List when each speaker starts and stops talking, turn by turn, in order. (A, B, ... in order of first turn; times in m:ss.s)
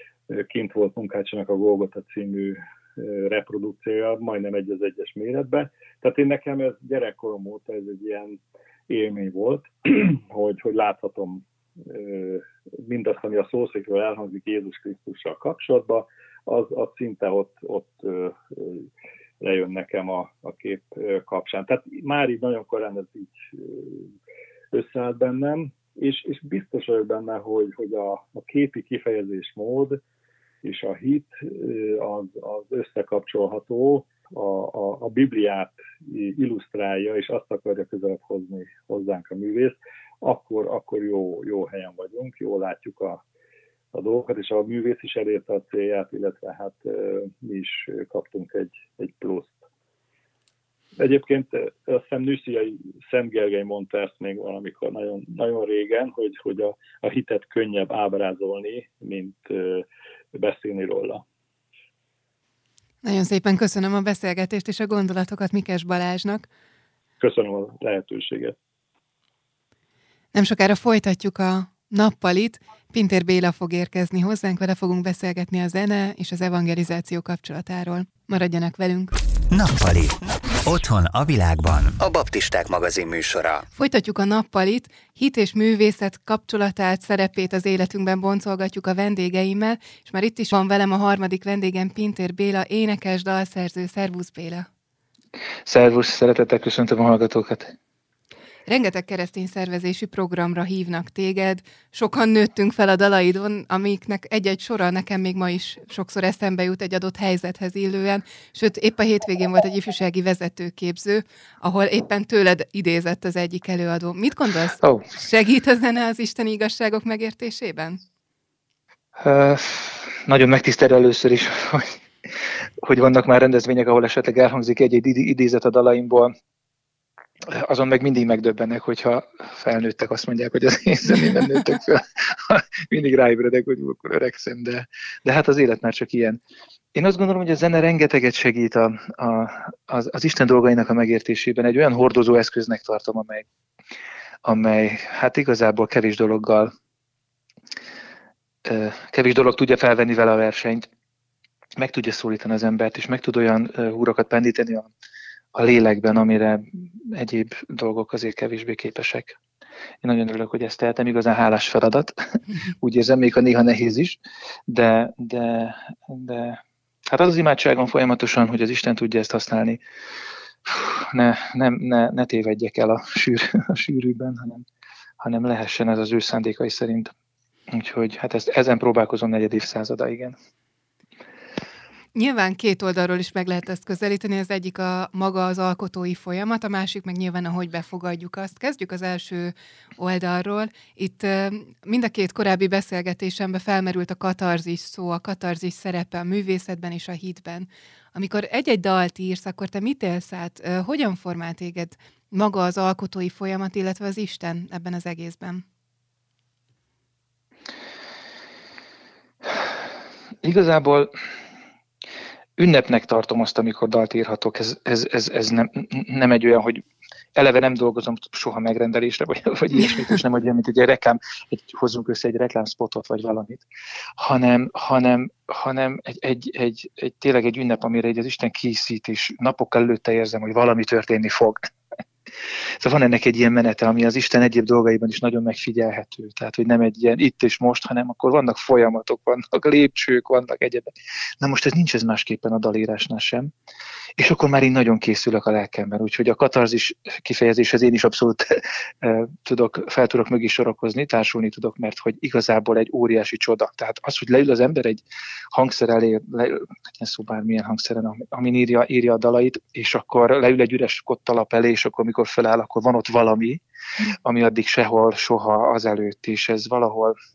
0:00.3-0:18.9 A
0:19.4-0:24.1 A
0:24.7-0:30.0 A
0:30.6-0:43.2 A
0:43.9-0:49.6 A
0:51.0-1:01.2 A
1:03.0-1:06.5 B
1:07.2-1:08.6 A
1:10.3-1:19.1 B
1:19.5-1:23.6 C
1:23.8-1:34.7 B
1:35.7-1:37.8 D
1:38.7-1:58.0 B
1:54.8-1:55.1 D
1:59.2-2:02.0 D
2:02.8-2:06.3 D
2:07.4-2:16.4 D
2:17.0-2:23.5 D
2:24.4-2:26.7 D
2:28.6-2:30.9 D
2:31.8-2:34.9 D
2:35.5-2:39.4 D
2:40.0-2:49.8 D
2:50.7-2:54.7 D
2:55.2-2:57.1 D
2:57.7-3:00.4 D
3:02.2-3:25.6 B
3:30.4-3:31.1 D
3:32.6-3:36.8 D
3:37.4-3:43.6 D
3:44.2-3:51.6 D
3:52.8-4:03.5 D
4:04.2-4:23.6 D
4:24.2-4:27.2 D